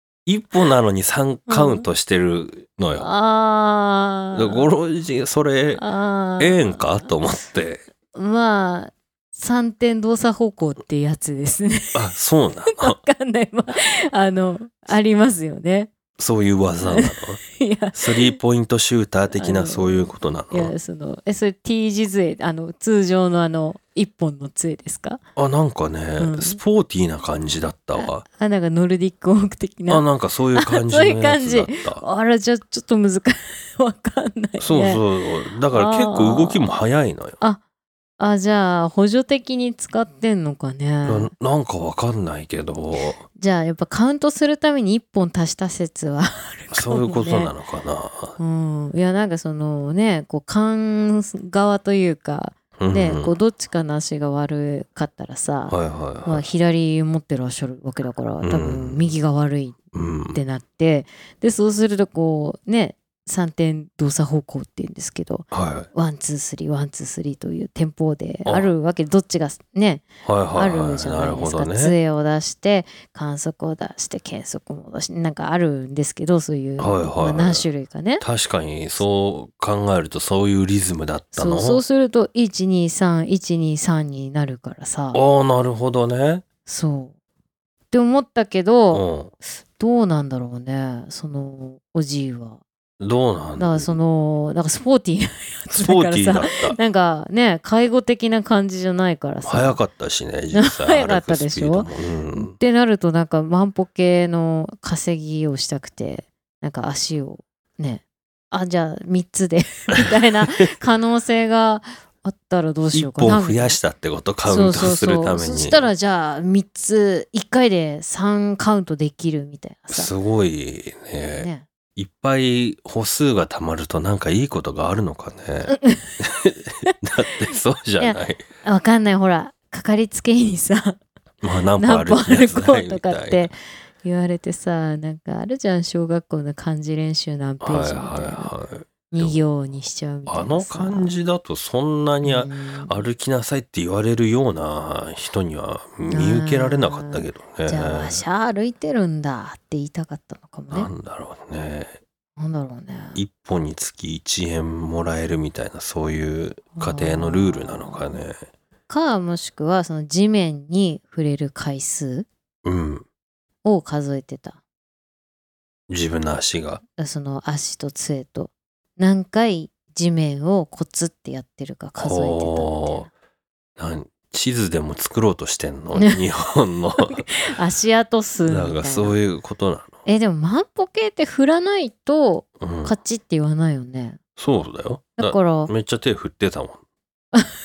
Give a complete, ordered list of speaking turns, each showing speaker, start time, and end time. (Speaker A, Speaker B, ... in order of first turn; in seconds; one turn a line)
Speaker A: 0.3-3.1
Speaker B: 1.5-1.9
Speaker B: 2.9-4.7
Speaker A: 4.3-5.8
Speaker B: 5.8-7.1
Speaker A: 6.4-7.8
Speaker B: 8.1-12.1
Speaker A: 11.9-13.0
Speaker B: 12.7-15.9
Speaker A: 16.2-17.4
Speaker B: 16.8-18.4
Speaker A: 17.9-20.7
Speaker B: 19.4-25.2
Speaker A: 25.4-28.2
Speaker B: 26.2-26.6
Speaker B: 28.0-35.0
Speaker A: 29.9-32.0
Speaker A: 34.6-37.4
Speaker B: 35.7-36.7
Speaker B: 38.2-41.3
Speaker A: 41.0-43.2
Speaker B: 43.0-47.5
Speaker A: 46.7-48.4
Speaker B: 48.4-59.8
Speaker A: 52.8-53.3
Speaker A: 55.7-56.5
Speaker A: 58.4-59.1
Speaker A: 59.9-60.4
Speaker B: 60.3-78.2
Speaker A: 65.5-65.9
Speaker A: 68.5-68.7
Speaker A: 70.2-72.0
Speaker A: 76.8-77.7
Speaker A: 78.2-81.8
Speaker B: 81.3-85.2
Speaker A: 85.1-86.5
Speaker B: 86.7-87.1
Speaker B: 87.9-89.0
Speaker A: 88.9-89.3
Speaker B: 89.8-92.6
Speaker A: 93.0-94.0
Speaker B: 93.6-99.8
Speaker A: 95.7-96.8
Speaker A: 99.5-102.5
Speaker B: 100.5-113.8
Speaker A: 112.9-115.9
Speaker B: 114.5-120.1
Speaker A: 119.9-128.4
Speaker B: 121.4-121.7
Speaker B: 125.7-127.0
Speaker B: 128.0-131.0
Speaker A: 131.4-133.5
Speaker B: 131.8-138.5
Speaker A: 137.6-139.4
Speaker B: 139.1-141.1
Speaker A: 140.3-148.2
Speaker B: 142.2-143.0
Speaker B: 146.1-150.9
Speaker A: 150.7-152.0
Speaker B: 152.4-153.2
Speaker A: 153.2-158.4
Speaker B: 156.8-158.2
Speaker B: 158.9-162.3
Speaker A: 162.6-163.1
Speaker B: 163.6-164.6
Speaker A: 165.9-166.8
Speaker B: 167.0-173.1
Speaker A: 172.0-173.1
Speaker A: 173.8-177.3
Speaker B: 175.9-176.2
Speaker B: 177.0-179.2
Speaker A: 178.5-180.0
Speaker B: 180.1-184.2
Speaker A: 182.6-182.9
Speaker A: 184.4-186.8
Speaker B: 185.2-185.7